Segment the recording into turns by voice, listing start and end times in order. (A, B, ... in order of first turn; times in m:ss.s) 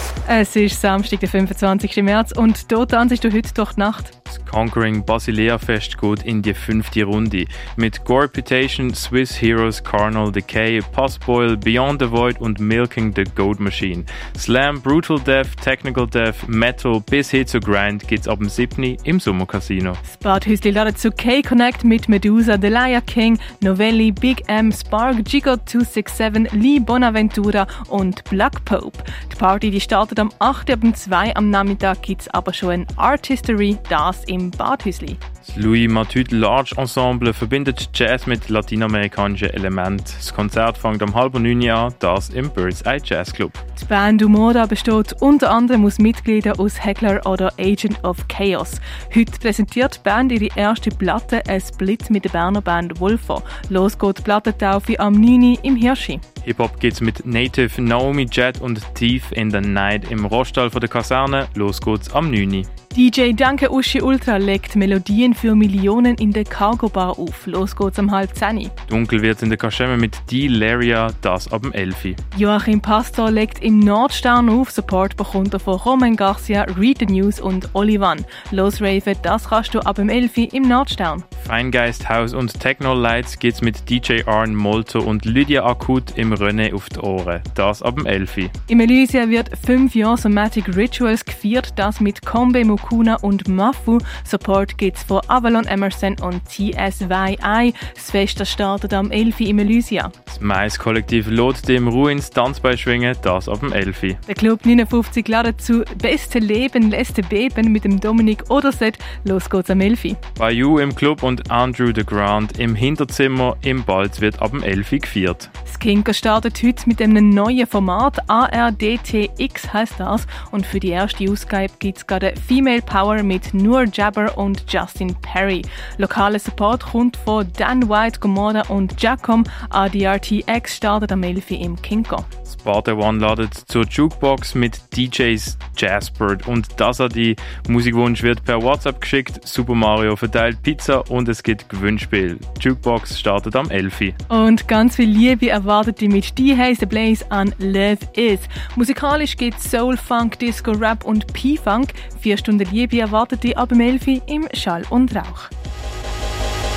0:00.3-0:04.1 A
0:04.3-0:20.0 B
0:20.0-0:35.2 A
0:35.4-0:43.6 B
0:43.8-0:56.2 A
0:56.4-1:02.7 B
1:02.9-1:08.7 A
1:08.9-1:12.2 B
1:12.3-1:21.3 A
1:21.4-1:28.5 B
1:28.7-1:40.1 A
1:40.3-1:44.2 B
1:44.3-1:50.2 A
1:50.4-1:55.5 B
1:55.7-2:12.3 A
2:12.5-2:24.2 B
2:24.3-2:35.5 A